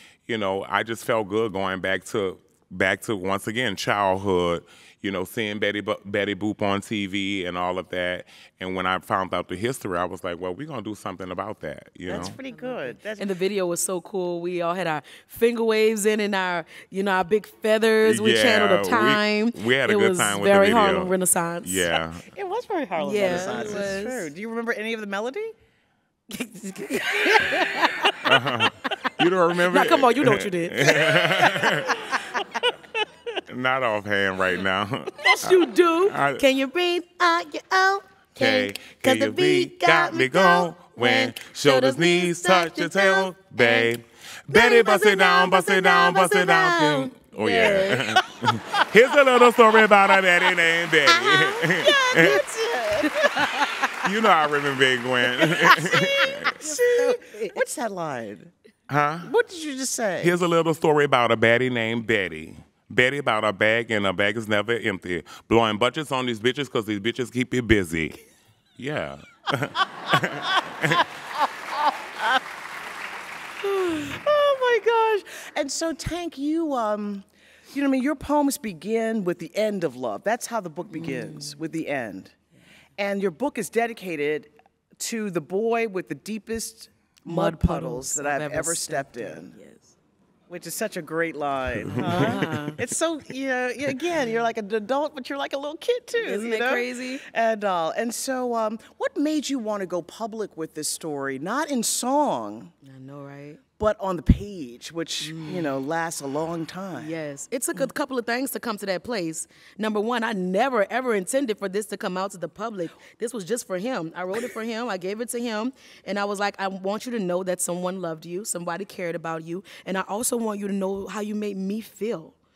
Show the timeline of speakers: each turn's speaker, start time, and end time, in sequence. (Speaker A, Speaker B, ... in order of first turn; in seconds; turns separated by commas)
Speaker A: 0.3-12.4, Speaker B: 12.1-13.3, Speaker C: 12.2-21.9, Speaker A: 18.0-21.1, Speaker A: 21.6-22.2, Speaker B: 22.3-25.6, Speaker C: 23.0-24.3, Speaker A: 23.2-23.6, Speaker C: 26.3-32.4, Speaker B: 27.4-28.1, Speaker A: 28.2-32.0, Speaker A: 33.5-36.4, Speaker C: 35.2-43.9, Speaker A: 38.4-52.4, Speaker C: 44.5-48.2, Speaker C: 51.1-52.4, Speaker B: 51.8-53.6, Speaker C: 53.0-54.0, Speaker A: 54.0-56.6, Speaker C: 55.4-57.6, Speaker B: 55.7-58.5, Speaker A: 58.9-59.3, Speaker B: 59.2-60.4, Speaker A: 60.2-68.2, Speaker A: 68.8-71.1, Speaker B: 70.2-70.7, Speaker B: 73.6-82.3, Speaker C: 80.9-81.6, Speaker B: 83.0-89.5, Speaker C: 87.2-89.9, Speaker B: 90.5-102.7, Speaker A: 91.9-92.4, Speaker C: 91.9-92.8, Speaker C: 96.2-97.2, Speaker C: 102.8-103.6, Speaker B: 103.8-107.1, Speaker C: 105.2-105.8, Speaker C: 107.0-122.4